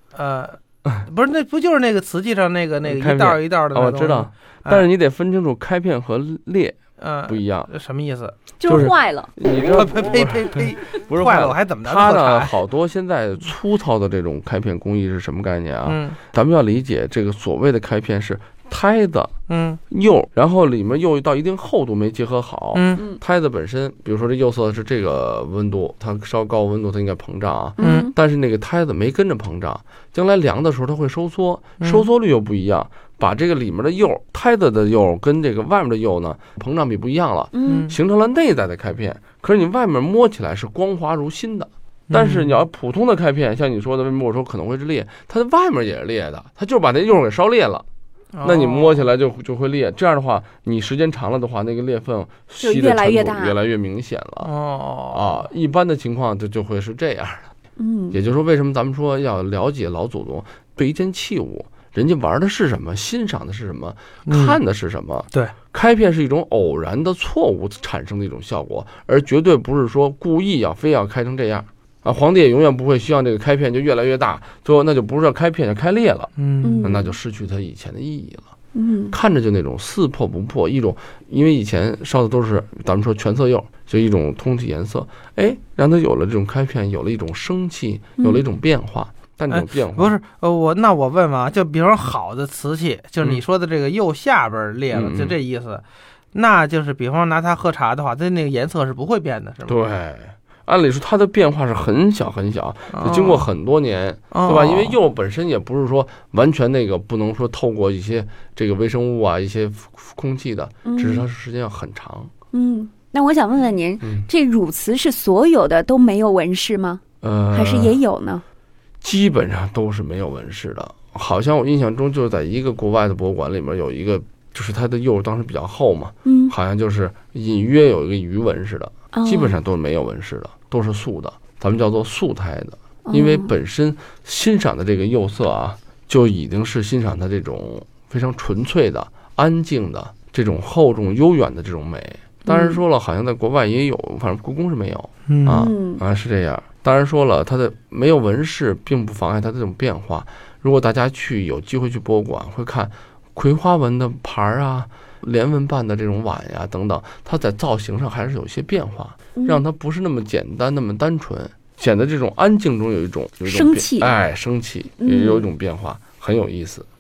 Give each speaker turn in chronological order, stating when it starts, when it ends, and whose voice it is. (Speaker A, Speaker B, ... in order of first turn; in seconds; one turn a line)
Speaker A: 0.1-4.9
Speaker B: 2.9-7.7
Speaker A: 7.0-8.3
Speaker C: 8.6-9.3
Speaker B: 8.7-19.3
Speaker A: 9.8-12.5
Speaker A: 15.9-16.2
Speaker A: 19.5-19.8
Speaker B: 19.9-47.9
Speaker A: 22.8-23.0
Speaker C: 27.8-28.1
Speaker A: 27.8-28.1
Speaker A: 31.8-32.1
Speaker C: 37.5-37.9
Speaker A: 37.7-38.0
Speaker A: 42.1-42.6
Speaker A: 48.3-49.1
Speaker B: 48.4-54.5
Speaker C: 52.6-53.6
Speaker A: 54.4-55.4
Speaker B: 55.1-57.5
Speaker C: 57.8-58.2
Speaker B: 58.1-76.3
Speaker A: 64.3-64.6
Speaker A: 76.4-76.8
Speaker C: 76.6-77.1
Speaker B: 76.8-78.5
Speaker C: 78.8-79.2
Speaker B: 79.1-90.2
Speaker A: 89.5-95.8
Speaker B: 94.9-95.4
Speaker A: 96.3-99.8
Speaker B: 99.7-112.3
Speaker A: 102.9-103.5
Speaker A: 104.3-105.0
Speaker C: 110.8-111.3
Speaker C: 112.5-117.0
Speaker B: 114.0-114.3
Speaker B: 117.2-118.0
Speaker C: 117.5-118.4
Speaker B: 119.0-166.9
Speaker C: 126.2-126.5
Speaker C: 129.1-129.6
Speaker C: 133.1-133.5
Speaker C: 142.5-142.8
Speaker A: 145.3-145.7
Speaker C: 145.5-146.0
Speaker C: 159.4-159.6
Speaker C: 163.5-164.2
Speaker C: 165.0-165.5